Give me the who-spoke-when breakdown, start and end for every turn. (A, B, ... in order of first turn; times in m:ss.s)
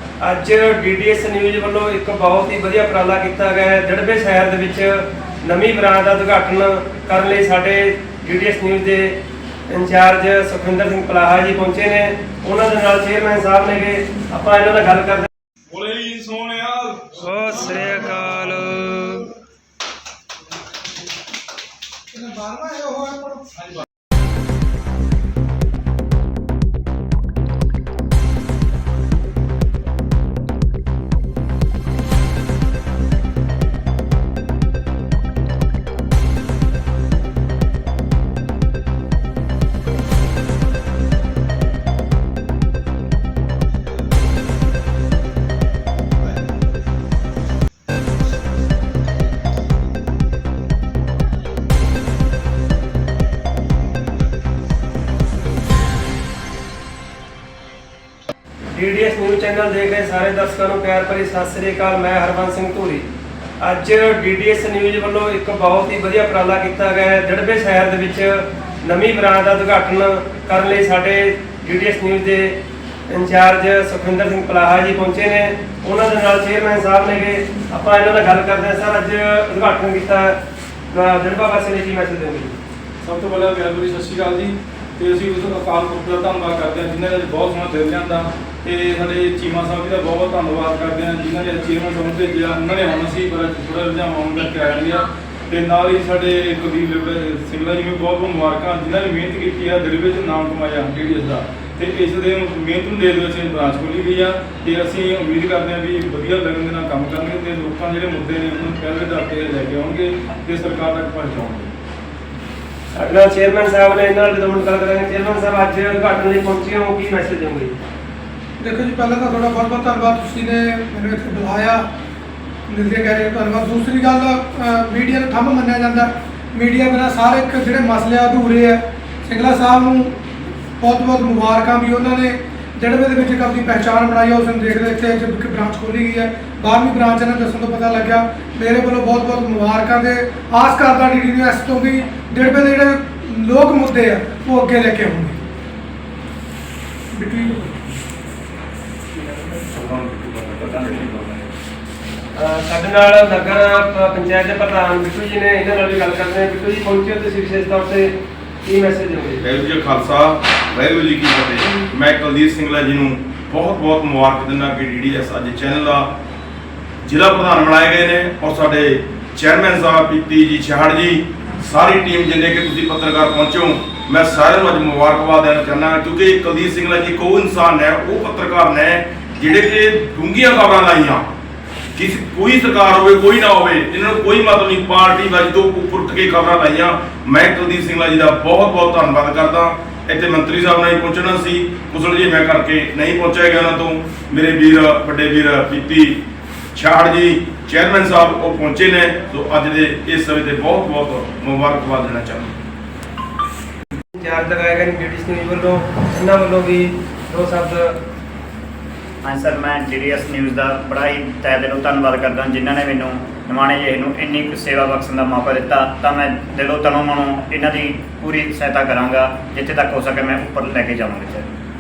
0:00.2-0:15.3 A
0:15.7-0:17.2 B
0:17.2-0:19.3 A
0:22.1-0:23.7 C
0:58.7-1:03.1 A
1:03.6-1:12.6 A
1:13.1-1:20.4 A
1:20.9-1:22.6 A
1:23.0-1:51.7 B
1:53.0-1:57.8 A
1:58.6-2:01.8 C
2:02.7-2:10.1 C
2:10.8-2:25.4 C
2:27.1-2:27.8 C
2:29.6-2:30.5 B
2:29.8-2:31.1 D
2:32.4-2:38.1 A
2:38.6-2:39.4 A
2:39.4-2:46.1 D
2:47.0-3:01.2 D
3:02.0-3:16.2 D
3:16.7-3:22.5 D
3:24.1-3:28.0 A
3:29.2-3:41.5 E